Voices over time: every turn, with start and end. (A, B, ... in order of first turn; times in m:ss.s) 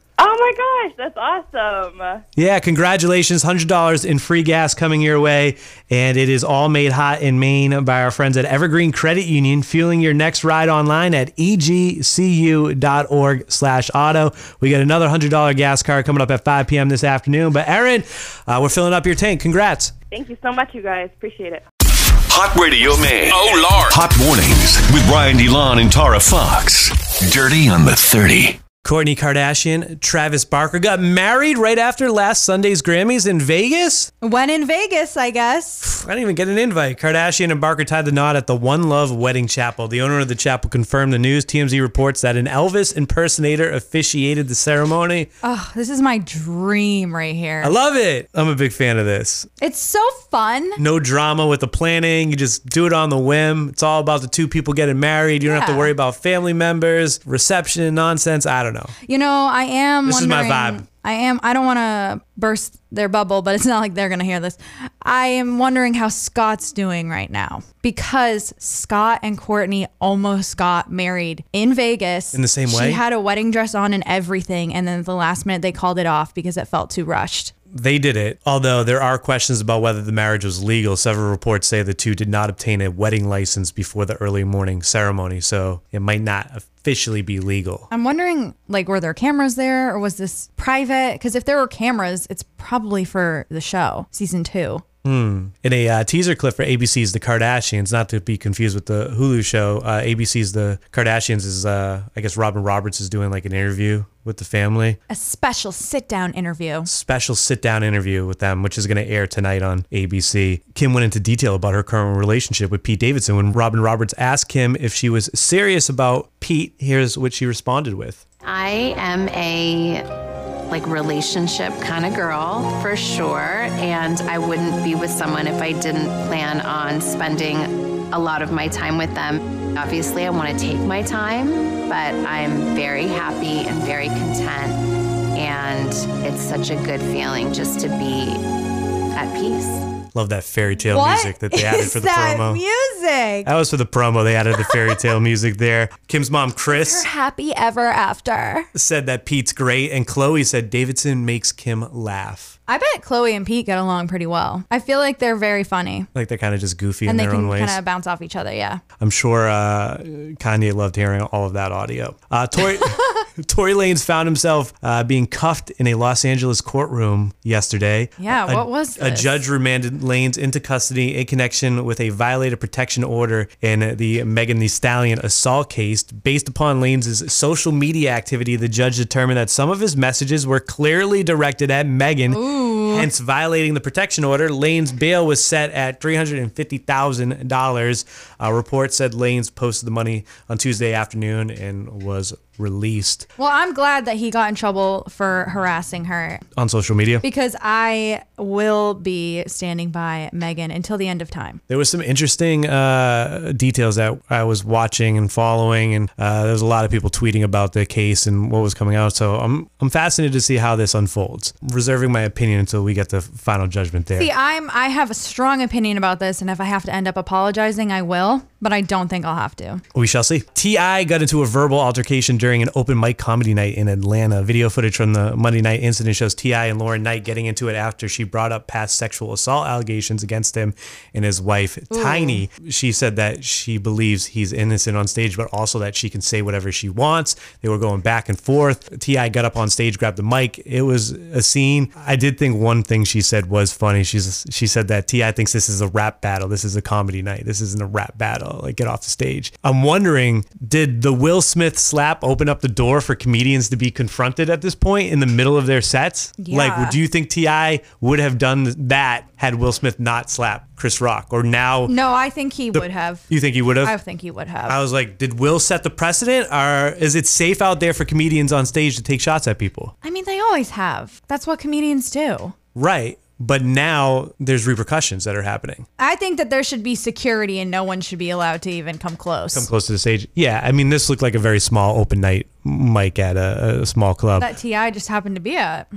0:00.2-0:02.2 A
0:02.4-0:19.9 B
0:20.1-0:21.6 A
0:22.3-0:28.6 C
0:28.8-0:34.1 B
0:34.2-0:35.9 D
0:35.8-0:45.3 B
0:45.4-0:47.7 D
0:47.6-0:49.5 B
0:49.6-0:50.8 D
0:50.8-0:58.9 B
0:55.5-0:55.9 D
0:59.1-1:17.5 D
1:00.0-1:00.8 B
1:12.3-1:13.0 B
1:17.7-1:27.9 B
1:27.9-1:34.8 D
1:35.0-1:45.0 B
1:45.1-1:46.9 D
1:46.9-1:58.2 B
1:58.4-2:00.0 E
2:00.7-2:14.8 E
2:15.3-2:18.4 E
2:19.1-2:19.9 E
2:20.1-2:22.6 B
2:20.9-2:23.5 D
2:23.4-2:27.1 B
2:26.7-2:28.7 D
2:28.7-2:32.6 B
2:32.7-2:36.1 D
2:36.1-2:37.8 B
2:37.1-2:38.8 D
2:39.0-3:13.3 B
2:48.2-2:49.4 D
3:02.3-3:03.1 D
3:13.4-3:16.4 D
3:16.6-3:17.2 B
3:17.2-3:21.6 D
3:21.7-3:34.3 B
3:34.2-3:39.8 D
3:39.9-4:21.9 B
3:51.9-3:52.4 D
4:16.4-4:17.0 D
4:21.9-4:23.3 D
4:22.7-4:24.0 B
4:23.8-4:24.8 D
4:24.7-4:29.9 B
4:30.0-4:32.6 D
4:32.8-4:35.9 B
4:36.0-4:39.7 D
4:39.5-4:44.5 B
4:44.4-4:45.9 D